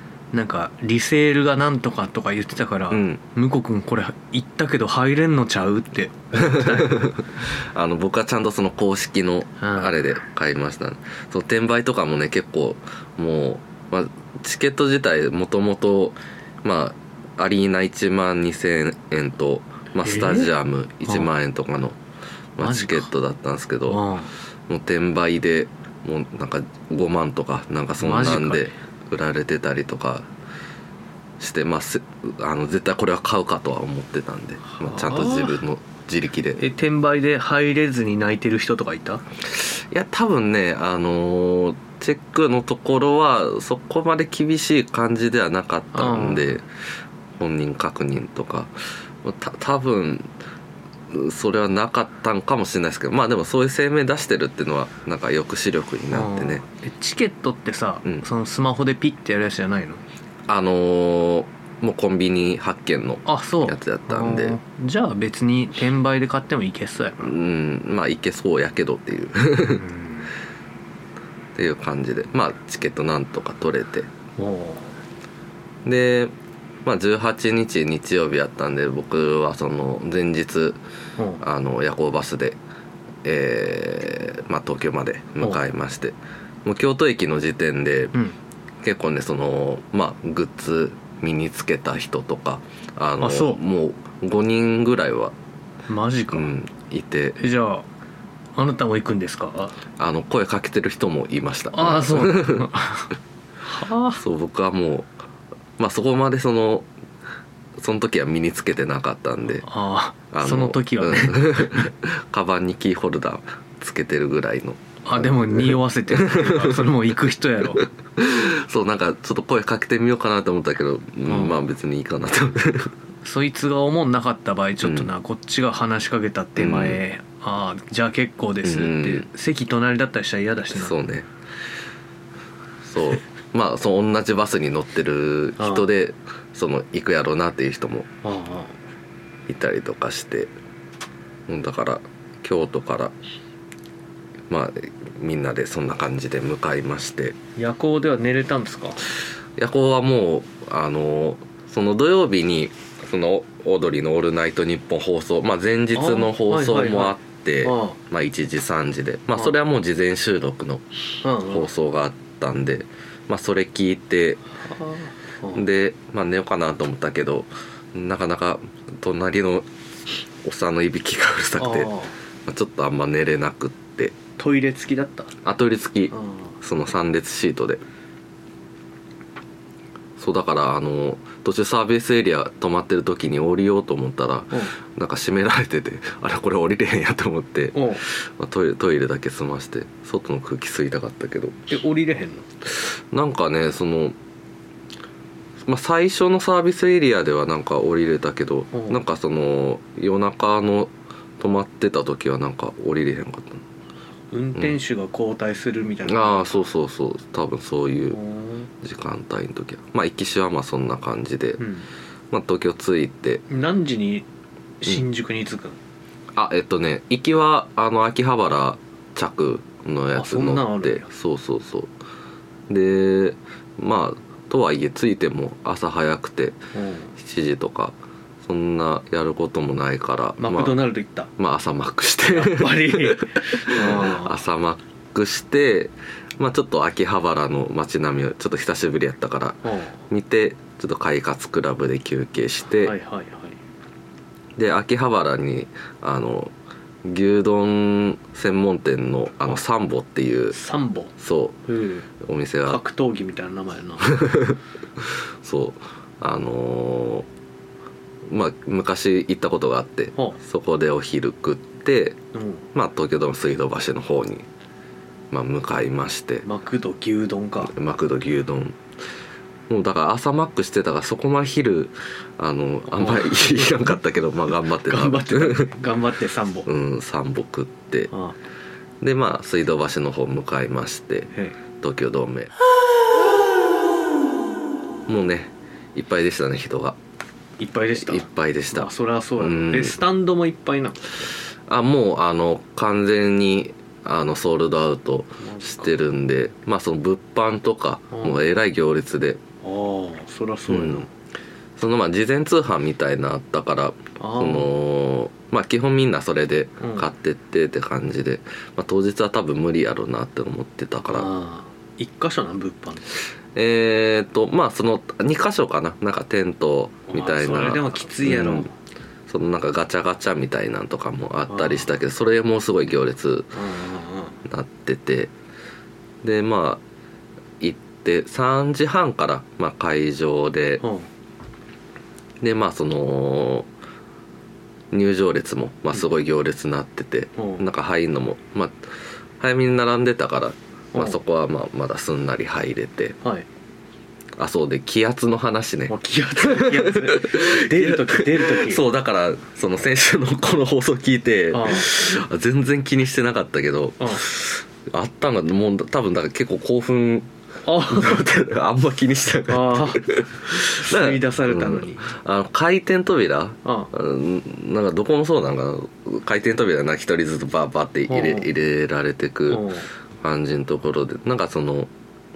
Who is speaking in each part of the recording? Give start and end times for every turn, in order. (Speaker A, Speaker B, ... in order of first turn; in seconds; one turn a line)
Speaker A: 0.3-7.2
Speaker B: 2.9-3.2
Speaker B: 6.3-22.0
Speaker A: 9.6-10.0
Speaker A: 20.0-20.5
Speaker B: 22.6-24.0
Speaker A: 22.6-23.1
Speaker A: 23.9-24.3
Speaker B: 24.7-30.3
Speaker A: 28.0-28.7
Speaker B: 31.4-36.6
Speaker A: 34.7-35.6
Speaker A: 36.6-39.2
Speaker B: 39.5-46.6
Speaker A: 45.9-46.6
Speaker B: 47.4-50.3
Speaker B: 51.1-56.6
Speaker A: 56.1-60.0
Speaker B: 60.5-64.6
Speaker A: 63.3-67.3
Speaker B: 67.2-69.8
Speaker A: 69.6-70.3
Speaker B: 71.6-74.1
Speaker A: 74.4-75.0
Speaker B: 75.8-76.3
Speaker B: 76.8-80.8
Speaker A: 81.2-81.4
Speaker B: 81.4-82.6
Speaker B: 83.2-88.2
Speaker B: 88.8-95.3
Speaker A: 93.2-93.6
Speaker A: 95.9-96.5
Speaker B: 96.3-97.4
Speaker A: 97.4-97.9
Speaker A: 98.6-99.8
Speaker B: 100.0-102.7
Speaker A: 101.7-103.1
Speaker A: 103.7-104.2
Speaker B: 104.2-105.1
Speaker B: 105.8-106.9
Speaker B: 107.8-109.7
Speaker A: 109.6-111.9
Speaker B: 110.3-116.9
Speaker A: 115.0-117.9
Speaker B: 117.8-122.9
Speaker A: 121.3-121.6
Speaker A: 123.2-130.9
Speaker B: 124.8-125.1
Speaker B: 126.6-127.0
Speaker B: 128.6-129.3
Speaker B: 130.7-131.3
Speaker B: 132.8-138.1
Speaker A: 135.6-135.9
Speaker A: 138.2-138.8
Speaker B: 139.5-140.5
Speaker B: 141.5-143.1
Speaker B: 144.5-147.4
Speaker A: 147.6-149.0
Speaker B: 149.6-160.8
Speaker A: 155.9-158.0
Speaker A: 161.2-161.7
Speaker B: 161.4-164.4
Speaker A: 164.6-165.7
Speaker B: 165.5-169.7
Speaker B: 170.4-171.9
Speaker A: 171.6-172.1
Speaker B: 172.5-174.2
Speaker A: 174.4-175.3
Speaker B: 175.4-177.8
Speaker A: 176.1-176.5
Speaker B: 180.2-191.6
Speaker A: 187.7-188.0
Speaker A: 191.7-192.5
Speaker B: 192.8-194.2
Speaker B: 195.6-203.6
Speaker A: 204.3-206.7
Speaker B: 206.1-208.2
Speaker A: 208.1-208.7
Speaker B: 208.8-211.6
Speaker A: 211.6-211.9
Speaker B: 212.3-213.4
Speaker A: 213.5-214.2
Speaker A: 214.8-215.8
Speaker B: 216.3-221.9
Speaker A: 220.1-221.1
Speaker B: 222.7-226.6
Speaker A: 226.7-227.1
Speaker B: 227.2-230.8
Speaker A: 230.4-231.3
Speaker B: 231.4-242.9
Speaker A: 232.3-234.4
Speaker A: 239.6-240.0
Speaker A: 242.8-243.6
Speaker B: 244.6-246.5
Speaker B: 247.1-250.6
Speaker A: 250.5-251.2
Speaker B: 251.2-251.6
Speaker A: 251.7-252.1
Speaker B: 252.2-252.8
Speaker A: 252.7-254.5
Speaker B: 254.1-257.3
Speaker B: 258.3-262.2
Speaker A: 262.3-262.6
Speaker B: 262.7-264.5
Speaker B: 265.3-266.5
Speaker A: 266.4-267.7
Speaker B: 267.6-268.8
Speaker B: 269.7-275.7
Speaker A: 272.9-274.0
Speaker A: 274.9-276.7
Speaker B: 276.7-278.1
Speaker A: 278.1-278.4
Speaker B: 279.0-282.5
Speaker B: 285.1-287.0
Speaker A: 287.6-291.3
Speaker B: 288.0-290.0
Speaker B: 291.7-299.4
Speaker A: 295.4-295.9
Speaker A: 298.1-298.4
Speaker A: 299.6-301.1
Speaker B: 300.7-301.1
Speaker B: 301.8-311.3
Speaker A: 304.2-304.7
Speaker A: 306.8-307.1
Speaker A: 311.1-313.1
Speaker B: 313.6-318.7
Speaker A: 317.1-318.7
Speaker B: 319.3-323.6
Speaker A: 321.5-321.9
Speaker A: 323.5-324.4
Speaker B: 324.4-325.3
Speaker B: 326.2-326.8
Speaker B: 327.6-330.8
Speaker A: 330.8-331.1
Speaker B: 332.4-333.7
Speaker B: 334.9-343.2
Speaker A: 337.4-337.6
Speaker A: 340.9-341.2
Speaker B: 344.4-357.3
Speaker A: 345.9-348.8
Speaker A: 351.5-351.9
Speaker A: 357.6-358.2
Speaker B: 357.9-371.9
Speaker A: 359.5-362.1
Speaker A: 363.6-363.9
Speaker A: 368.1-368.5
Speaker A: 369.5-369.9